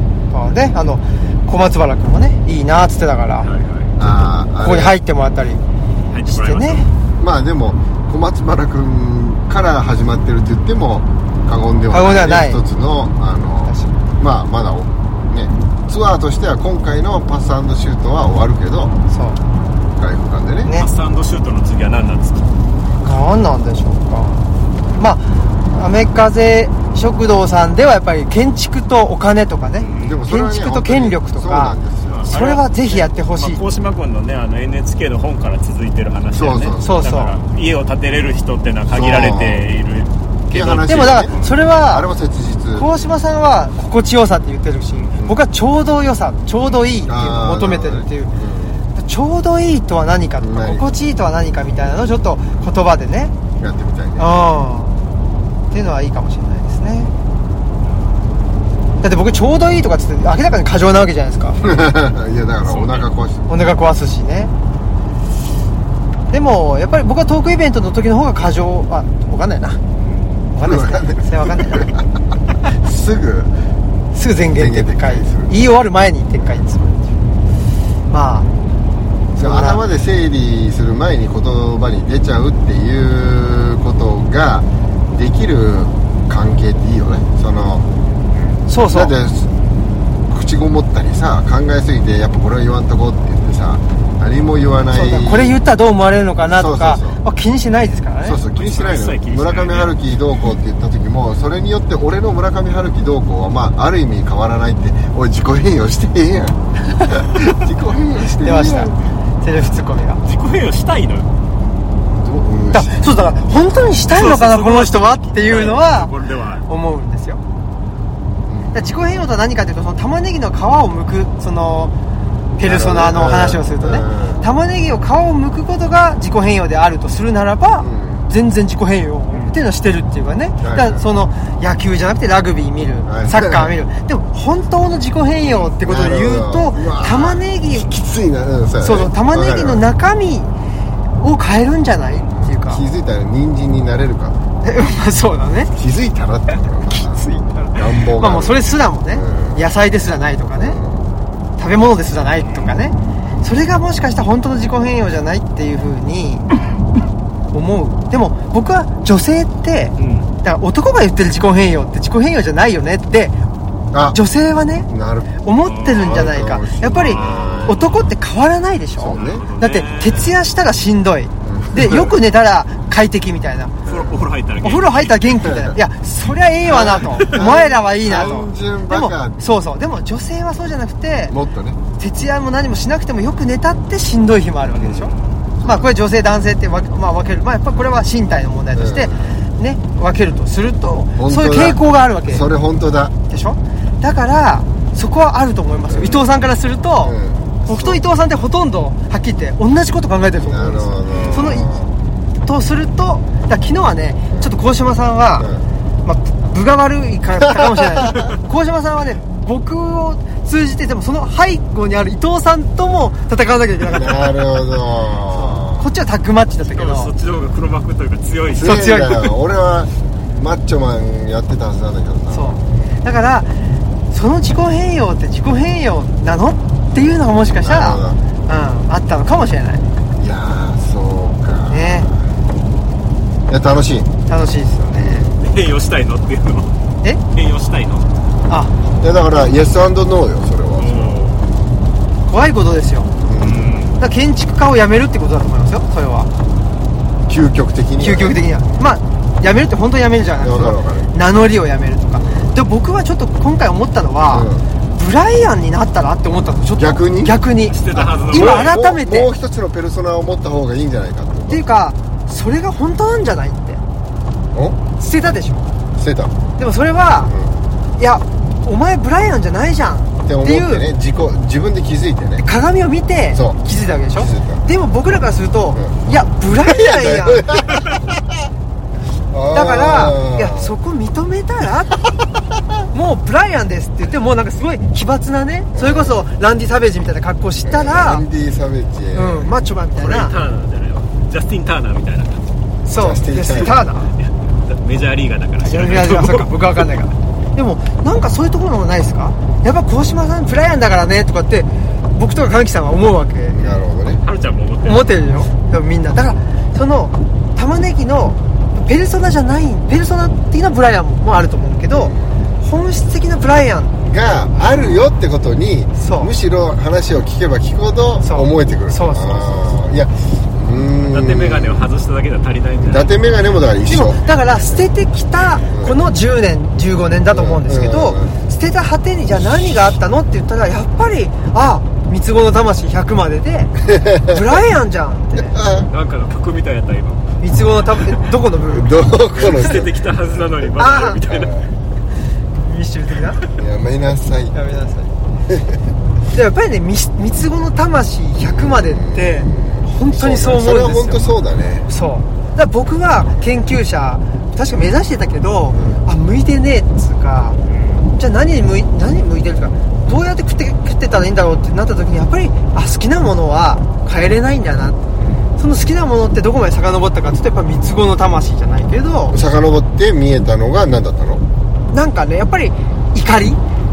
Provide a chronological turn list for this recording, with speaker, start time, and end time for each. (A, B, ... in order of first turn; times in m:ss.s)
0:00.3-0:03.5 A
0:03.4-0:04.0 B
0:04.0-0:04.9 C
0:04.6-0:05.6 A
0:06.1-0:06.8 B
0:06.2-0:06.9 A
0:07.2-0:19.0 C
0:11.9-0:12.6 A
0:13.7-0:14.0 A
0:19.1-0:19.4 A
0:20.0-0:20.7 C
0:20.8-0:22.5 B
0:23.0-0:24.4 A
0:25.0-0:31.8 A
0:29.8-0:30.2 B
0:30.0-0:32.3 C
0:32.1-0:41.5 B
0:32.3-0:33.6 A
0:36.3-0:37.0 C
0:36.8-0:37.3 A
0:38.9-0:39.6 C
0:40.5-0:41.3 C
0:40.8-0:42.1 A
0:41.8-0:42.9 C
0:42.8-0:48.3 A
0:47.0-0:48.8 C
0:48.9-0:53.3 A
0:50.4-0:50.9 C
0:53.6-0:54.3 C
0:54.2-0:55.0 A
0:55.7-0:57.1 A
0:59.0-1:01.6 A
1:01.6-1:03.5 C
1:02.6-1:03.1 B
1:03.5-1:04.5 A
1:06.3-1:09.8 A
1:10.5-1:11.9 A
1:10.6-1:12.1 C
1:12.6-1:13.5 C
1:14.1-1:17.1 A
1:14.5-1:15.7 C
1:16.4-1:16.6 C
1:18.1-1:18.5 A
1:19.4-1:19.8 A
1:19.4-1:27.8 C
1:28.7-1:29.1 A
1:28.9-1:29.5 C
1:30.3-1:35.6 C
1:34.9-1:38.4 A
1:36.5-1:37.2 C
1:38.2-1:48.9 C
1:38.6-1:39.9 B
1:48.4-1:50.2 A
1:50.2-1:51.3 B
1:52.2-1:53.0 C
1:52.7-1:56.1 A
1:54.1-1:56.6 B
1:56.7-1:57.4 A
1:58.5-1:58.9 C
1:58.7-2:01.9 A
2:02.6-2:17.9 A
2:02.6-2:04.5 C
2:07.8-2:08.2 C
2:10.6-2:11.0 C
2:13.1-2:13.7 C
2:15.8-2:19.8 C
2:18.8-2:20.5 A
2:21.2-2:22.8 A
2:22.3-2:24.4 C
2:24.6-2:25.7 A
2:25.7-2:27.2 C
2:26.9-2:30.8 A
2:27.7-2:29.6 C
2:30.6-2:31.0 C
2:31.6-2:36.5 A
2:37.5-2:43.4 A
2:40.0-2:40.3 B
2:43.9-2:44.2 C
2:44.1-2:44.9 A
2:44.9-2:45.3 C
2:45.4-2:53.8 A
2:45.6-2:46.4 B
2:45.9-2:47.9 C
2:47.0-2:48.1 B
2:49.0-2:49.4 C
2:49.1-2:50.3 B
2:51.4-2:52.1 C
2:53.8-2:54.2 C
2:53.8-2:55.2 B
2:54.6-3:01.3 A
2:56.7-2:59.4 C
3:01.3-3:01.8 C
3:02.0-3:05.1 A
3:04.7-3:05.9 C
3:05.6-3:12.4 A
3:08.7-3:09.4 C
3:11.2-3:13.1 C
3:13.3-3:21.8 A
3:15.9-3:16.3 C
3:17.0-3:18.0 C
3:20.4-3:21.9 C
3:21.1-3:21.6 B
3:22.4-3:25.5 A
3:25.4-3:25.6 C
3:26.0-3:34.4 A
3:27.6-3:28.1 C
3:33.9-3:35.8 C
3:35.3-3:37.1 A
3:36.7-3:38.9 B
3:38.5-3:42.6 C
3:38.6-3:39.3 A
3:42.3-3:43.5 A
3:44.1-3:49.9 A
3:47.6-3:48.2 C
3:50.2-3:52.2 C
3:51.7-3:52.1 A
3:53.5-3:54.1 C
3:54.3-3:55.3 A
3:54.9-3:55.4 C
3:55.4-3:56.7 B
3:57.3-3:58.1 B
3:58.5-3:58.7 A
3:59.0-4:01.3 C
4:00.8-4:01.4 B
4:02.3-4:03.1 A
4:03.2-4:03.8 C
4:03.4-4:04.0 B
4:04.0-4:06.3 A
4:07.3-4:08.4 C
4:08.0-4:19.3 A
4:10.4-4:11.1 C
4:12.2-4:12.5 C
4:14.3-4:14.7 C
4:16.8-4:17.3 C
4:17.7-4:18.8 B
4:18.3-4:21.6 C
4:21.5-4:23.8 A
4:24.5-4:24.8 C
4:25.0-4:25.7 A
4:26.0-4:26.3 C
4:26.6-4:27.3 A
4:27.3-4:27.5 C
4:28.0-4:30.8 A
4:30.2-4:32.4 C
4:32.4-4:37.7 A
4:34.2-4:34.6 C
4:36.6-4:38.5 C
4:39.3-4:40.7 C
4:39.5-4:42.0 A
4:42.9-4:48.2 A
4:45.7-4:46.2 C
4:47.6-4:49.5 C
4:49.1-4:50.4 A
4:49.9-4:52.5 B
4:52.8-4:54.1 A
4:52.9-4:53.8 C
4:54.2-4:56.8 B
4:55.6-5:03.7 A
5:03.5-5:04.2 C
5:04.2-5:05.2 B
5:04.8-5:13.9 A
5:11.9-5:12.4 C
5:14.0-5:21.8 C
5:16.0-5:16.3 A
5:18.2-5:19.8 A
5:21.0-5:23.4 B
5:22.8-5:24.2 C
5:23.9-5:35.6 A
5:25.7-5:26.0 C
5:27.3-5:28.3 C
5:33.8-5:34.4 C
5:35.4-5:35.9 C
5:35.9-5:37.3 B
5:37.4-5:39.0 A
5:38.6-5:39.9 C
5:39.3-5:41.6 B
5:40.8-5:41.2 A
5:41.1-5:41.7 C
5:42.6-5:43.4 A
5:43.6-5:44.6 C
5:44.5-5:45.1 A
5:45.5-5:45.8 C
5:46.3-5:51.3 A
5:48.4-5:51.9 C
5:51.9-5:57.6 A
5:55.7-5:56.0 C
5:57.7-5:58.0 B
5:58.1-6:05.0 A
6:05.6-6:09.4 A
6:09.3-6:11.4 C
6:11.9-6:13.6 A